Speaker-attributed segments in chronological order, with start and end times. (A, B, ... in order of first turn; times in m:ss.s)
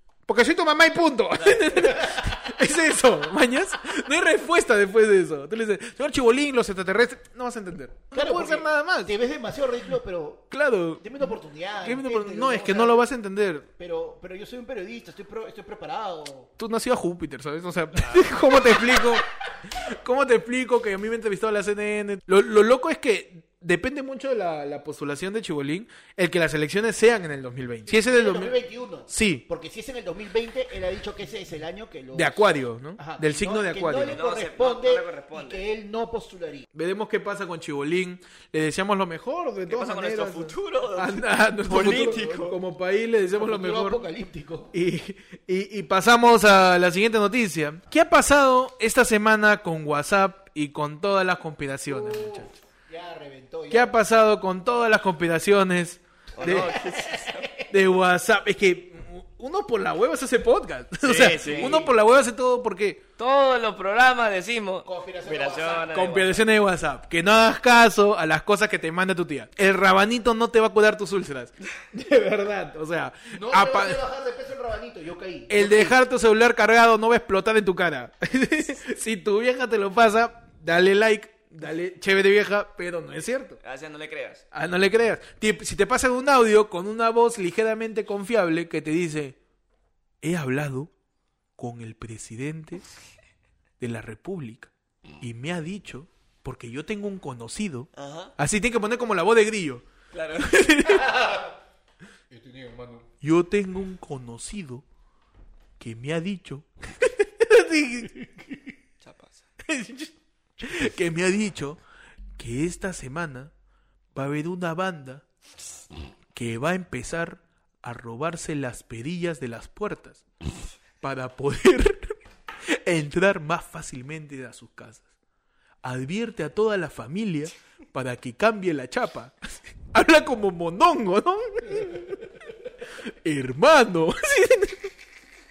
0:00.3-0:09.1 A
0:01.4-0:02.0 B
0:08.1-0:13.1 C
0:10.5-0:11.2 A
0:11.8-0:13.7 A
0:13.8-0:16.5 C
0:16.6-0:28.6 A
0:18.0-0:18.7 B
0:27.9-0:32.5 C
0:29.1-0:29.4 A
0:32.1-0:34.2 A
0:33.0-0:36.7 C
0:34.1-0:35.6 B
0:36.7-0:44.0 A
0:39.7-0:42.6 B
0:41.7-0:42.5 C
0:43.4-0:44.7 C
0:44.7-0:52.5 A
0:51.9-0:53.9 C
0:53.7-0:56.8 A
0:56.4-0:57.5 B
0:56.4-0:57.7 C
0:57.7-1:03.0 A
1:01.0-1:01.8 B
1:01.5-1:01.9 C
1:03.2-1:06.4 B
1:04.8-1:06.0 C
1:05.9-1:14.0 A
1:13.3-1:16.0 C
1:15.5-1:23.6 A
1:23.6-1:24.4 B
1:24.5-1:29.4 A
1:30.2-1:30.9 A
1:31.6-1:32.9 A
1:33.8-1:39.8 A
1:38.0-1:38.3 B
1:40.1-1:40.6 B
1:40.4-1:41.1 A
1:40.9-1:41.5 C
1:42.3-1:43.1 C
1:43.2-1:44.8 A
1:45.8-1:48.3 A
1:49.0-1:49.4 B
1:49.6-1:51.8 A
1:52.4-1:53.5 A
1:54.2-1:55.2 A
1:56.3-2:00.2 A
2:01.0-2:02.2 A
2:02.7-2:05.1 A
2:05.8-2:12.3 A
2:13.0-2:14.9 A